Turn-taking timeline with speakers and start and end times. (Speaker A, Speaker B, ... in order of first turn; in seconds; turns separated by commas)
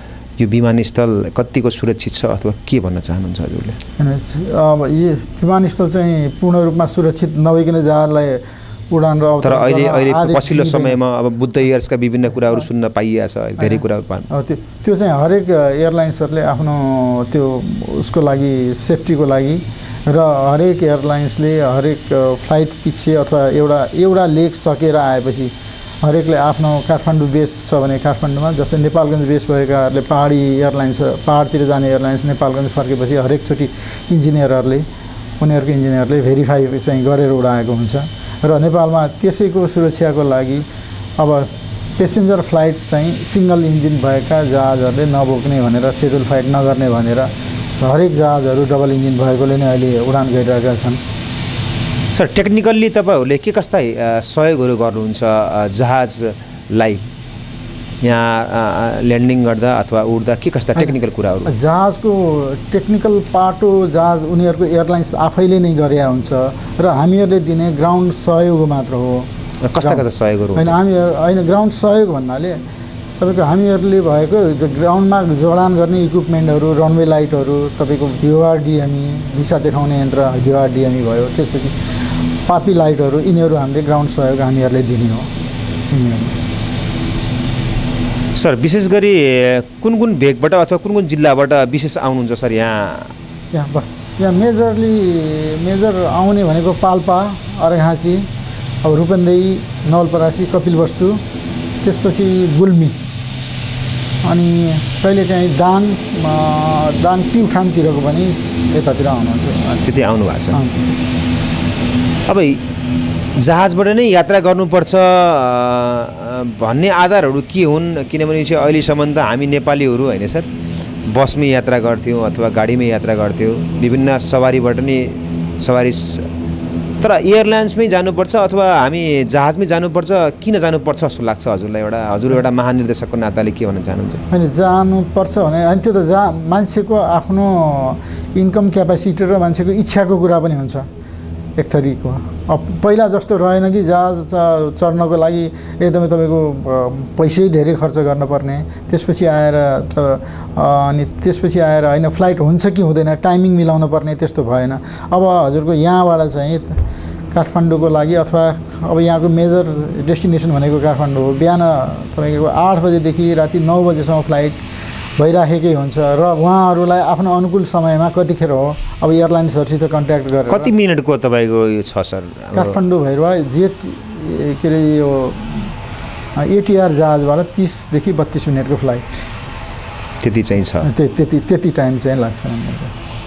Speaker A: 0.4-3.8, Speaker B: 4.0-11.0, Speaker A: 9.4-14.3, Speaker B: 13.6-34.9, Speaker B: 35.4-40.7, Speaker B: 41.2-51.0, Speaker A: 52.1-57.1, Speaker A: 58.0-61.5, Speaker B: 61.5-70.0, Speaker A: 69.6-70.8, Speaker B: 70.5-72.6, Speaker B: 73.2-81.8, Speaker B: 82.4-85.3, Speaker B: 85.9-86.4, Speaker A: 88.3-93.1, Speaker B: 93.5-98.3, Speaker B: 98.8-101.2, Speaker B: 101.8-103.0, Speaker B: 104.2-110.0, Speaker A: 109.8-110.6, Speaker B: 110.5-111.0, Speaker A: 112.3-112.6, Speaker A: 113.4-126.3, Speaker A: 127.0-134.2, Speaker B: 134.3-140.9, Speaker B: 141.6-164.6, Speaker B: 165.2-170.7, Speaker A: 170.5-172.8, Speaker B: 172.5-175.8, Speaker B: 176.4-179.3, Speaker A: 180.2-180.9, Speaker B: 180.8-182.9